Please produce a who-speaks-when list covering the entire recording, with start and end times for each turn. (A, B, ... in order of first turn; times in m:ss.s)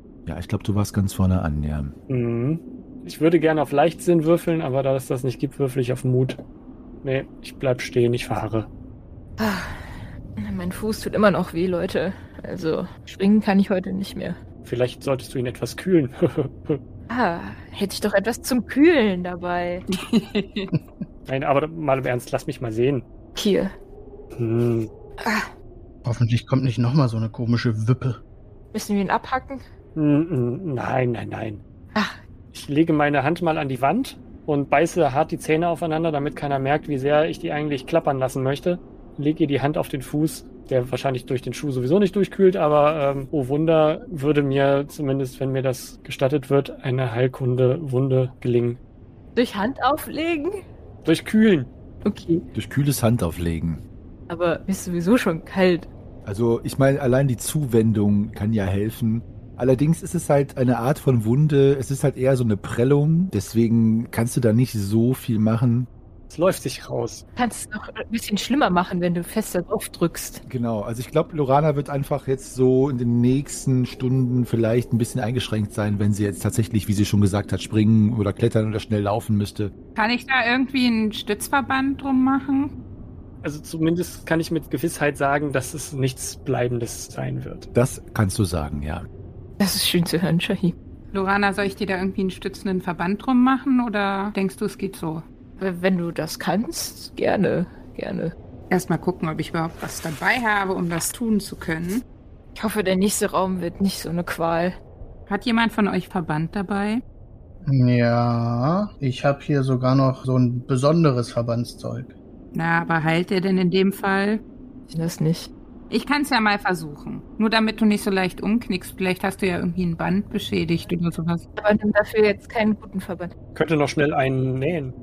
0:00.2-0:01.9 A
0:02.1-0:06.4 B
0:07.0-0:08.7 B
0:09.4-0:14.4 C
0:14.6-0:16.8 B
0:17.1-0:19.8 C
0:19.9-0:20.7 D
0:21.2-0:23.0 B
0:23.3-0:23.7 C
0:24.3-0:24.9 B
0:25.2-0:25.5 C
0:26.0-0:28.2 E
0:28.7-0:29.6 C
0:29.9-0:31.6 B
0:32.5-0:48.8 B
0:49.4-0:50.6 C
0:51.0-0:51.7 B
0:52.0-0:52.4 C
0:52.5-0:53.8 A
0:54.3-0:55.9 C
0:56.2-1:05.9 A
1:06.3-1:07.2 B
1:07.4-1:10.4 C
1:10.5-1:19.7 A
1:20.0-1:22.7 D
1:23.4-1:27.7 B
1:27.7-1:29.1 A
1:29.6-1:30.7 C
1:31.1-1:35.2 D
1:35.6-1:38.3 C
1:38.7-1:42.0 D
1:42.6-1:44.8 C
1:45.3-1:47.0 D
1:47.6-1:52.1 E
1:52.5-1:54.4 D
1:54.9-1:55.5 C
1:55.9-2:01.4 D
2:01.6-2:03.3 C
2:03.5-2:04.9 B